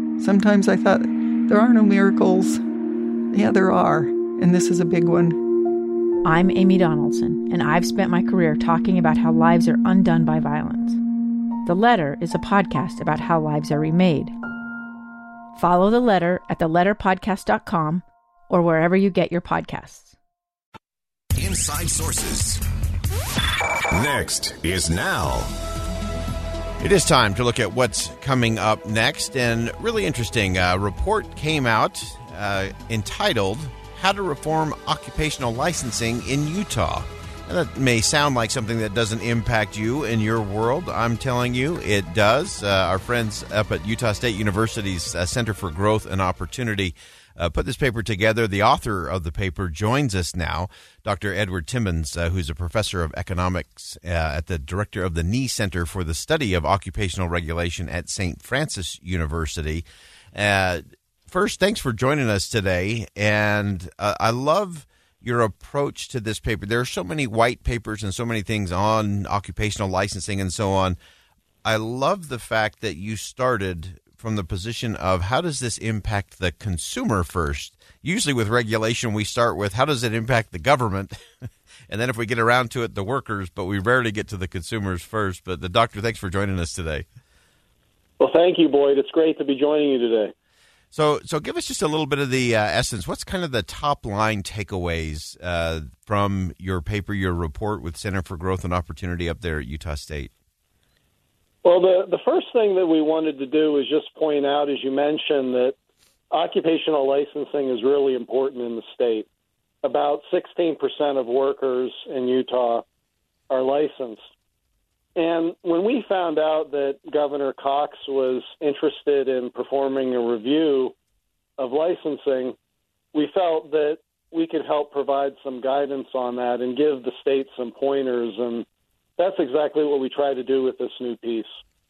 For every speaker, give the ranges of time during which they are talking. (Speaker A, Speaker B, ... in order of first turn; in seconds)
Speaker A: 0.2-2.6, 3.3-5.4
Speaker B: 6.2-11.0, 11.7-14.3, 15.6-20.1
Speaker C: 21.4-22.6, 23.9-25.5
Speaker D: 26.8-71.0, 71.6-81.1, 81.9-87.0, 90.9-100.3
Speaker E: 88.2-90.3, 101.6-105.7, 106.3-109.3, 109.8-112.8, 113.5-114.2, 115.2-120.9, 121.6-122.5, 123.1-128.7, 129.2-131.6